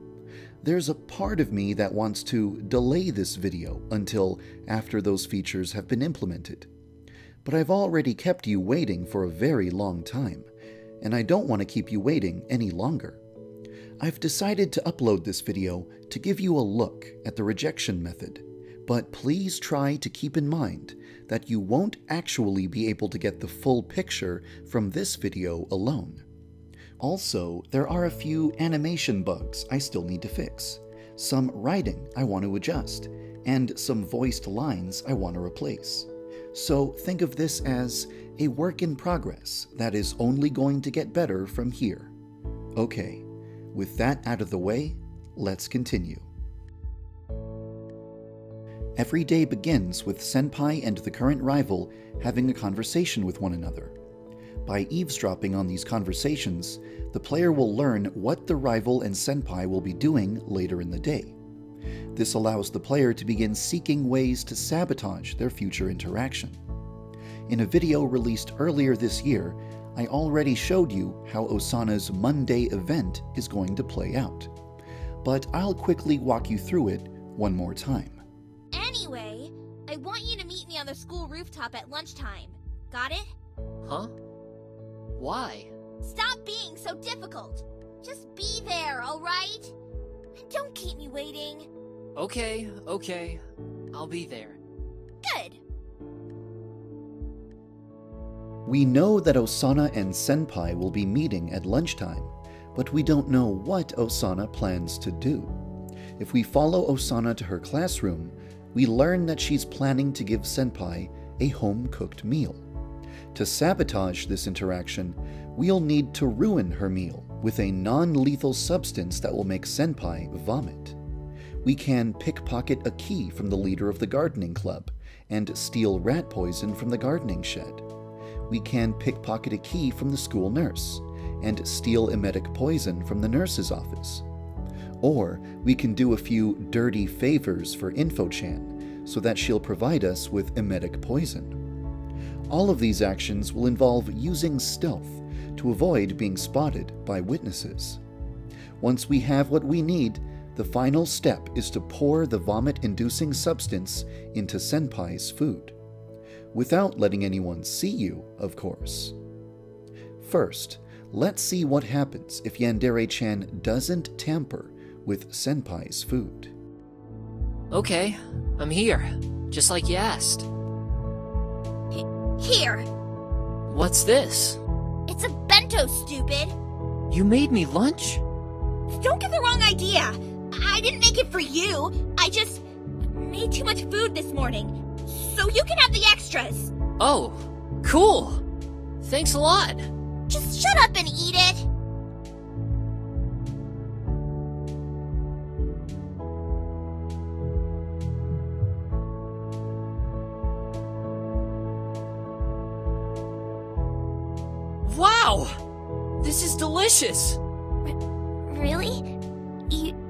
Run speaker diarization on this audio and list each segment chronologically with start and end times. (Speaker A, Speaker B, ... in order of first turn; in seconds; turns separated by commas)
Speaker A: 0.6-6.7, Speaker A: 7.4-10.5, Speaker A: 11.0-13.2, Speaker A: 14.0-26.2, Speaker A: 27.0-42.1, Speaker A: 42.8-46.3, Speaker A: 49.0-53.9, Speaker A: 54.6-61.4, Speaker A: 62.1-66.6, Speaker A: 67.5-74.5, Speaker A: 75.2-78.2, Speaker B: 78.7-83.3, Speaker C: 83.8-84.1, Speaker C: 85.2-85.7, Speaker B: 86.0-89.7, Speaker B: 90.3-91.7, Speaker C: 92.2-93.4, Speaker C: 93.9-94.6, Speaker B: 95.2-95.6, Speaker A: 98.7-105.5, Speaker A: 106.2-112.7, Speaker A: 113.3-121.0, Speaker A: 121.6-127.8, Speaker A: 128.5-134.2, Speaker A: 135.0-141.6, Speaker A: 142.5-148.0, Speaker A: 148.8-155.7, Speaker A: 156.5-159.2, Speaker A: 160.2-166.5, Speaker C: 167.7-170.5, Speaker B: 171.9-172.9, Speaker C: 173.7-174.6, Speaker B: 175.1-176.6, Speaker C: 177.1-178.2, Speaker B: 178.9-186.7, Speaker C: 187.0-188.4, Speaker C: 189.0-189.9, Speaker B: 190.3-191.7, Speaker C: 204.8-205.6, Speaker C: 206.2-207.4, Speaker B: 207.8-209.1, Speaker B: 209.7-209.9